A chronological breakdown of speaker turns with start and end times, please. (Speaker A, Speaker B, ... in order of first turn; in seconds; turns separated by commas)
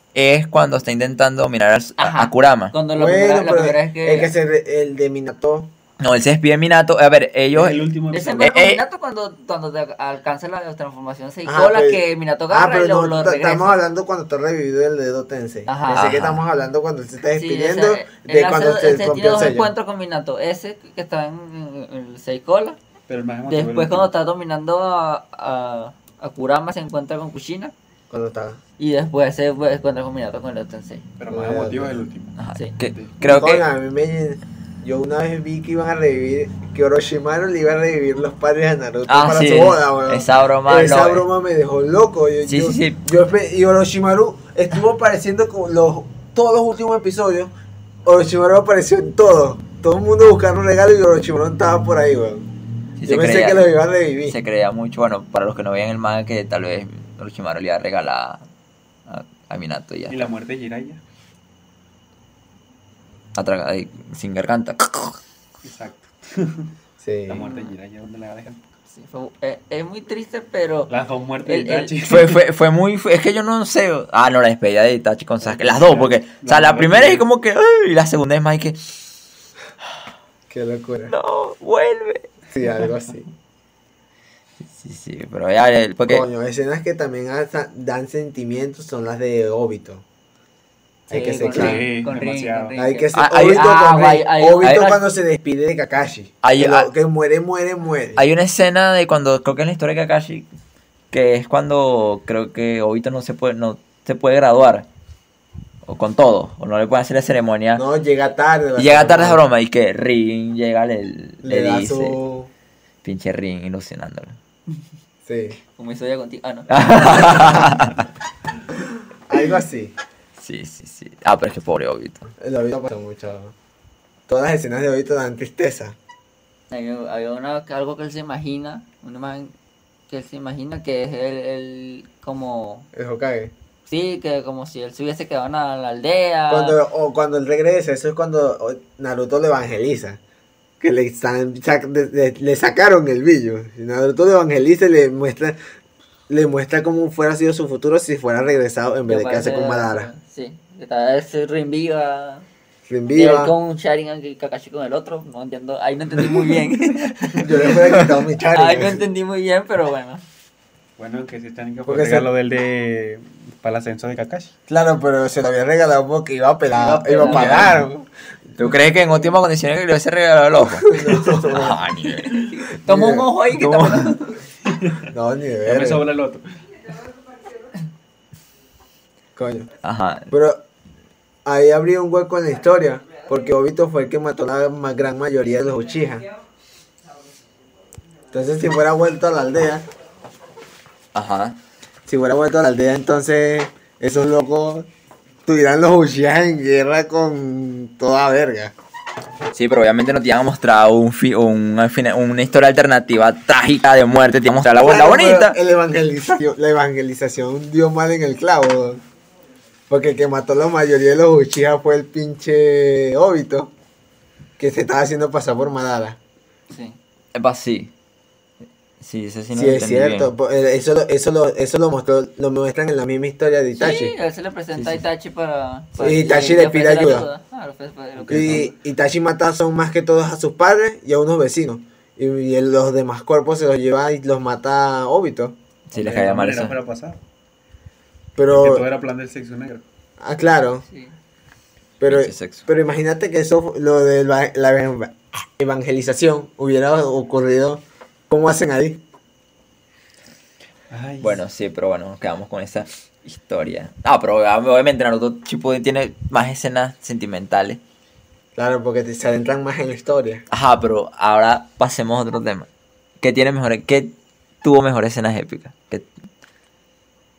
Speaker A: 0.1-2.8, Speaker B: 2.0-4.3, Speaker C: 2.9-5.7, Speaker A: 6.0-7.9, Speaker D: 7.5-8.5, Speaker B: 8.1-13.8, Speaker A: 8.4-8.8, Speaker C: 11.5-19.7, Speaker B: 15.7-16.1, Speaker A: 15.9-16.4, Speaker B: 17.4-22.8, Speaker D: 23.1-24.1, Speaker B: 23.4-27.7, Speaker C: 28.1-28.6, Speaker B: 28.8-31.0, Speaker D: 31.2-32.4, Speaker C: 31.3-32.0, Speaker A: 32.4-33.6, Speaker C: 33.2-47.5, Speaker A: 39.1-41.2, Speaker A: 42.5-43.0, Speaker C: 48.0-52.5, Speaker A: 53.0-53.7, Speaker C: 53.0-54.4, Speaker A: 54.3-58.4, Speaker A: 59.1-60.3, Speaker D: 60.1-61.0, Speaker A: 63.4-65.2, Speaker D: 65.6-66.7, Speaker C: 67.0-67.5, Speaker D: 67.3-68.6, Speaker B: 67.4-67.7, Speaker B: 68.9-72.0, Speaker D: 70.9-72.4, Speaker A: 72.0-79.1, Speaker D: 75.4-77.2, Speaker C: 80.5-81.1, Speaker A: 81.1-82.3, Speaker C: 82.5-83.3, Speaker A: 84.7-86.3, Speaker C: 86.1-90.0, Speaker C: 91.1-91.9, Speaker B: 91.1-95.0, Speaker D: 91.5-92.8, Speaker C: 92.8-98.2, Speaker A: 93.1-93.6, Speaker A: 94.6-94.9, Speaker A: 96.4-96.9, Speaker A: 98.2-100.5, Speaker A: 101.1-104.9, Speaker A: 105.8-107.8, Speaker C: 107.8-109.4, Speaker A: 108.8-112.2, Speaker C: 111.4-112.5, Speaker A: 113.0-114.4, Speaker C: 115.2-115.6, Speaker B: 115.8-117.7, Speaker A: 116.7-118.1, Speaker C: 118.7-120.0, Speaker A: 120.4-122.3, Speaker C: 122.4-123.5, Speaker C: 124.3-126.0, Speaker B: 126.7-129.5, Speaker B: 130.1-132.9, Speaker C: 132.9-133.5, Speaker B: 133.9-136.8, Speaker C: 136.5-140.2, Speaker C: 140.8-145.6, Speaker C: 146.3-150.1, Speaker B: 149.1-152.5, Speaker C: 152.9-153.5, Speaker B: 153.1-157.9, Speaker C: 157.3-159.1, Speaker B: 158.5-160.2, Speaker D: 161.0-164.5, Speaker C: 161.8-162.3, Speaker C: 164.7-168.1, Speaker B: 166.7-167.8, Speaker A: 167.2-167.8, Speaker A: 168.6-172.4, Speaker C: 170.8-171.9, Speaker B: 172.3-174.4, Speaker C: 172.8-173.3, Speaker A: 173.6-174.1, Speaker D: 174.7-175.1, Speaker C: 175.1-176.1, Speaker D: 175.6-176.4, Speaker C: 179.4-179.7, Speaker A: 179.8-180.3, Speaker C: 180.3-180.6, Speaker C: 181.4-186.3, Speaker C: 188.3-189.9, Speaker A: 191.1-191.6, Speaker C: 192.1-194.9, Speaker C: 195.5-198.7, Speaker A: 199.5-205.6, Speaker C: 204.8-209.0, Speaker C: 209.9-213.7, Speaker C: 214.6-216.2, Speaker B: 216.7-217.0, Speaker A: 217.3-217.9, Speaker A: 219.0-220.3, Speaker C: 219.5-224.2, Speaker B: 223.7-228.7, Speaker C: 226.0-227.3, Speaker D: 228.2-228.7, Speaker C: 228.3-235.6, Speaker A: 235.9-236.8, Speaker D: 235.9-237.2, Speaker C: 238.4-238.8, Speaker D: 238.5-239.8, Speaker C: 240.2-240.8, Speaker B: 240.9-241.1, Speaker C: 242.0-249.0, Speaker A: 242.0-242.7, Speaker D: 250.9-251.4, Speaker A: 251.2-257.8, Speaker C: 258.6-260.4, Speaker A: 260.5-262.7, Speaker A: 263.2-266.1